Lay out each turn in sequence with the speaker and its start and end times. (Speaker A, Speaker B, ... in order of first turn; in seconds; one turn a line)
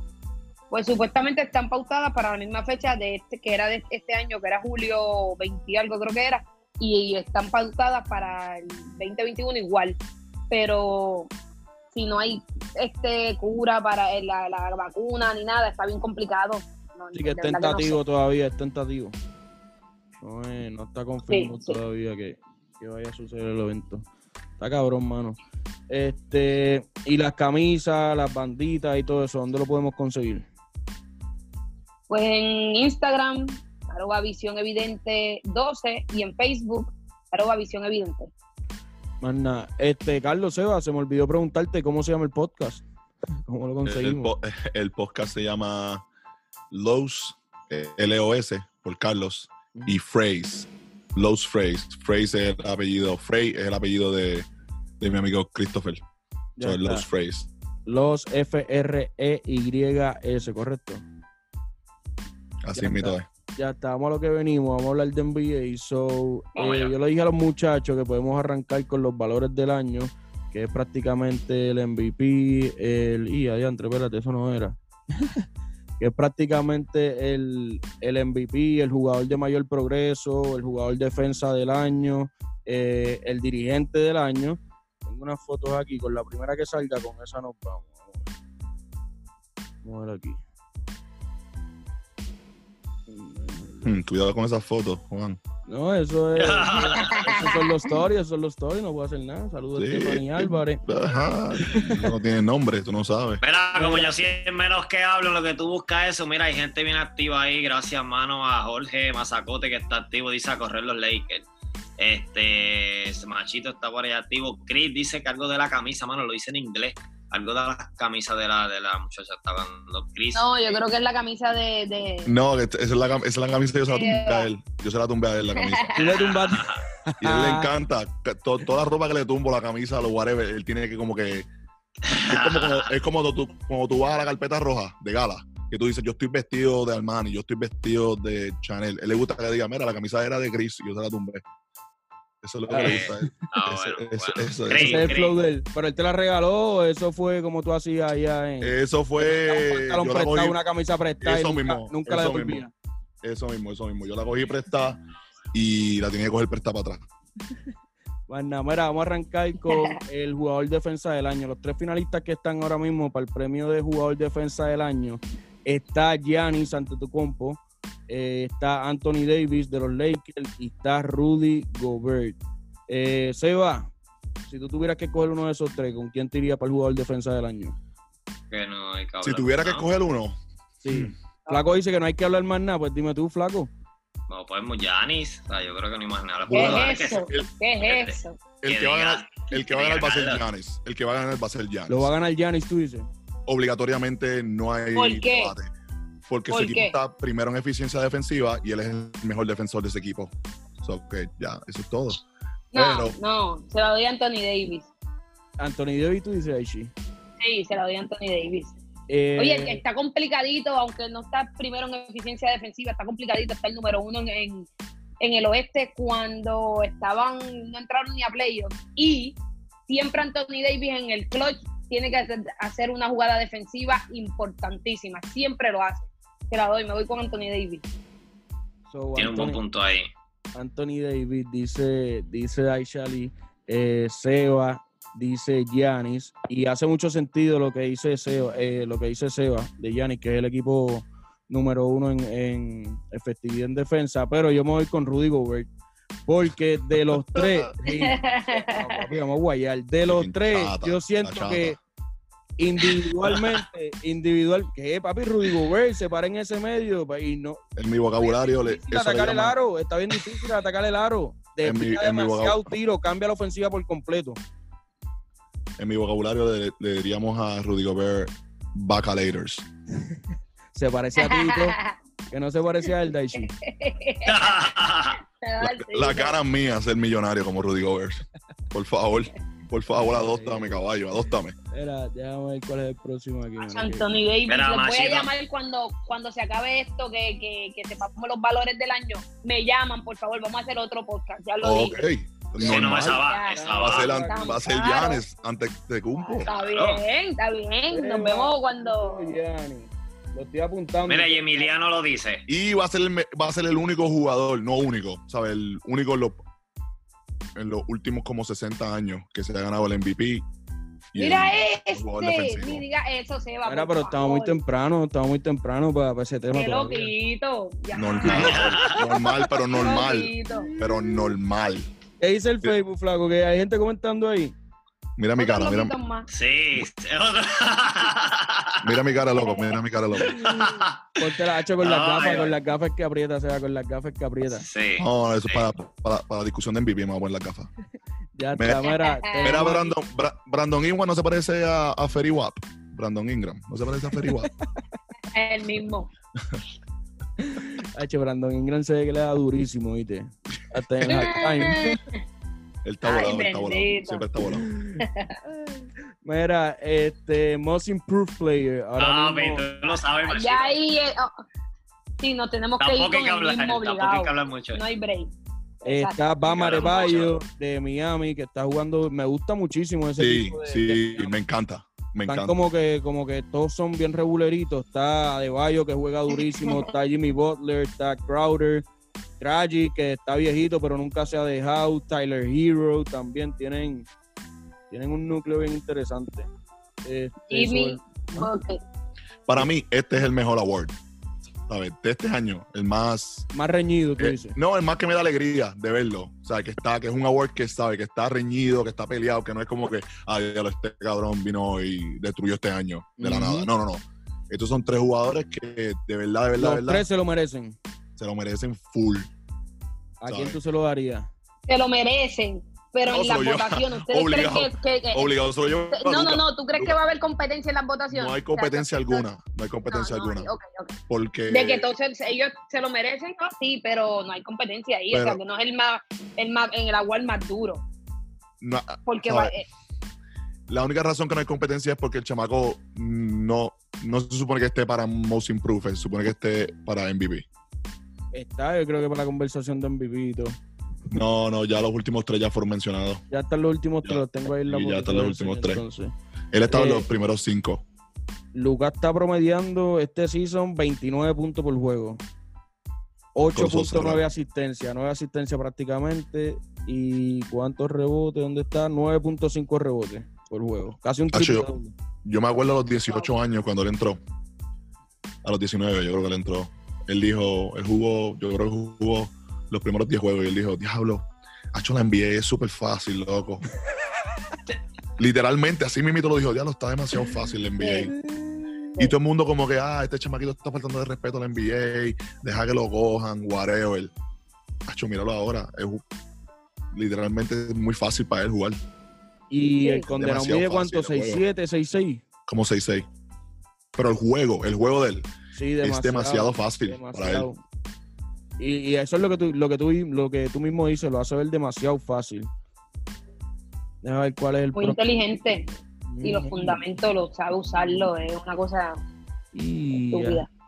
Speaker A: 0.7-10.0
Speaker A: 10.5-11.3
Speaker A: 11.9-18.0
Speaker B: 17.1-19.2
Speaker B: 20.2-24.1
Speaker A: 21.3-21.8
Speaker B: 24.6-25.4
Speaker B: 25.9-30.5
Speaker A: 32.1-38.3
Speaker B: 39.2-42.9
Speaker B: 43.5-44.3
Speaker C: 43.9-46.0
Speaker C: 46.7-54.5
Speaker C: 55.0-56.0
Speaker B: 56.6-57.1
Speaker C: 56.6-57.5
Speaker B: 57.9-61.0
Speaker C: 62.6-63.3
Speaker B: 62.8-75.4
Speaker D: 66.6-66.9
Speaker B: 76.0-88.3
Speaker B: 89.8-90.4
Speaker B: 93.1-93.9
Speaker C: 93.8-95.4
Speaker B: 95.7-100.8
Speaker D: 96.4-97.6
Speaker A: 96.8-97.7
Speaker C: 99.8-103.4
Speaker B: 101.6-102.1
Speaker D: 103.4-111.5
Speaker B: 103.7-104.2
Speaker D: 112.0-120.8
Speaker A: 120.3-122.3
Speaker C: 122.2-126.0
Speaker A: 123.9-124.5
Speaker A: 125.5-126.0
Speaker B: 126.0-127.7
Speaker D: 126.0-126.8
Speaker C: 127.2-131.5
Speaker D: 132.1-132.9
Speaker C: 132.1-141.4
Speaker C: 142.4-145.2
Speaker B: 142.7-143.3
Speaker D: 142.8-145.4
Speaker B: 144.7-152.7
Speaker C: 148.6-150.6
Speaker C: 151.2-152.7
Speaker C: 153.2-155.0
Speaker C: 155.5-157.1
Speaker B: 158.3-172.4
Speaker A: 159.7-160.0
Speaker B: 172.9-173.9
Speaker B: 174.5-177.8
Speaker D: 178.5-179.9
Speaker C: 179.2-180.4
Speaker B: 180.8-183.7
Speaker A: 181.5-181.8
Speaker D: 184.3-187.3
Speaker C: 186.4-187.5
Speaker A: 186.5-188.4
Speaker D: 187.8-190.4
Speaker C: 188.6-192.1
Speaker B: 191.9-193.1
Speaker C: 193.5-195.7
Speaker A: 194.9-195.5
Speaker C: 196.3-203.2
Speaker A: 196.5-196.9
Speaker A: 202.7-204.9
Speaker B: 205.6-206.9
Speaker A: 207.4-208.8
Speaker B: 209.1-209.8
Speaker A: 209.4-214.7
Speaker A: 215.2-219.4
Speaker A: 219.9-227.8
Speaker B: 228.9-229.6
Speaker D: 229.2-230.1
Speaker B: 230.6-245.7
Speaker B: 246.3-251.8
Speaker C: 247.1-247.7
Speaker A: 247.9-249.1
Speaker C: 250.1-251.8
Speaker B: 252.6-257.6
Speaker C: 257.8-259.6
Speaker B: 258.2-264.4
Speaker C: 261.6-262.7
Speaker C: 265.8-269.7
Speaker B: 270.7-271.8
Speaker A: 271.2-272.0
Speaker B: 272.3-273.5
Speaker A: 273.4-274.6
Speaker D: 274.2-275.2
Speaker A: 275.4-276.4
Speaker C: 275.6-281.6
Speaker B: 280.0-280.9
Speaker B: 281.7-284.1
Speaker A: 283.6-292.0
Speaker D: 284.5-285.3
Speaker C: 291.6-293.2
Speaker D: 292.6-294.1
Speaker A: 292.6-295.2
Speaker B: 293.5-294.6
Speaker C: 293.8-296.5
Speaker A: 296.2-299.3
Speaker D: 296.5-297.0
Speaker B: 297.9-301.7
Speaker D: 301.1-302.4
Speaker C: 302.5-306.4
Speaker C: 307.6-310.5
Speaker C: 311.1-312.9
Speaker A: 311.2-314.6
Speaker B: 313.6-317.1
Speaker A: 316.5-319.0
Speaker C: 317.9-321.9
Speaker D: 318.2-319.0
Speaker A: 319.7-320.7
Speaker B: 320.5-321.3
Speaker B: 322.2-324.6
Speaker C: 325.2-325.9
Speaker A: 325.4-326.3
Speaker D: 326.3-328.9
Speaker C: 328.8-330.6
Speaker A: 329.3-329.8
Speaker D: 330.3-331.0
Speaker B: 330.5-334.7
Speaker D: 331.8-332.5
Speaker D: 334.5-335.7
Speaker C: 335.0-337.7
Speaker B: 338.4-339.9
Speaker C: 338.6-338.9
Speaker A: 338.8-339.7
Speaker C: 339.4-344.5
Speaker B: 344.2-344.5
Speaker A: 345.3-346.1
Speaker B: 347.4-352.0
Speaker A: 351.1-352.2
Speaker C: 352.9-354.7
Speaker A: 353.0-354.3
Speaker B: 354.5-359.7
Speaker A: 355.0-355.4
Speaker D: 359.0-360.8
Speaker A: 360.2-361.3
Speaker A: 362.2-366.2
Speaker D: 362.8-364.8
Speaker B: 365.8-371.3
Speaker D: 366.4-367.4
Speaker C: 370.2-372.5
Speaker B: 372.3-378.9
Speaker A: 376.6-376.9
Speaker B: 379.4-384.1
Speaker B: 384.9-386.5
Speaker B: 387.1-388.5
Speaker A: 387.5-388.8
Speaker C: 389.5-391.0
Speaker C: 391.7-393.5
Speaker B: 393.5-394.6
Speaker C: 394.2-407.1
Speaker B: 403.2-403.7
Speaker B: 406.6-407.8
Speaker C: 408.2-409.3
Speaker B: 410.2-411.3
Speaker C: 410.3-410.6
Speaker A: 411.7-415.3
Speaker C: 413.1-417.0
Speaker A: 415.9-419.2
Speaker C: 418.1-420.5
Speaker A: 419.9-421.0
Speaker C: 421.1-421.9
Speaker A: 421.5-427.8
Speaker C: 425.1-425.4
Speaker C: 428.6-429.6
Speaker A: 429.1-429.6
Speaker C: 430.7-437.5
Speaker B: 438.3-440.6
Speaker C: 441.1-443.2
Speaker B: 443.3-446.1
Speaker C: 444.0-445.8
Speaker C: 446.5-447.8
Speaker B: 446.7-447.1
Speaker B: 448.5-452.2
Speaker B: 453.4-461.9
Speaker C: 453.4-454.2
Speaker C: 461.3-461.7
Speaker C: 462.2-464.2
Speaker C: 465.4-473.6
Speaker C: 475.2-478.1
Speaker A: 477.8-478.1
Speaker C: 479.0-484.1
Speaker C: 484.9-486.0
Speaker C: 486.9-488.8
Speaker B: 489.5-492.2
Speaker A: 489.8-490.1
Speaker C: 490.1-491.4
Speaker C: 492.5-493.1
Speaker C: 493.9-495.3
Speaker B: 495.5-497.6
Speaker C: 495.8-497.5
Speaker B: 498.6-502.5
Speaker B: 504.0-505.0
Speaker A: 504.8-505.7
Speaker B: 506.1-506.8
Speaker A: 506.2-509.0
Speaker B: 509.5-510.4
Speaker A: 510.1-510.5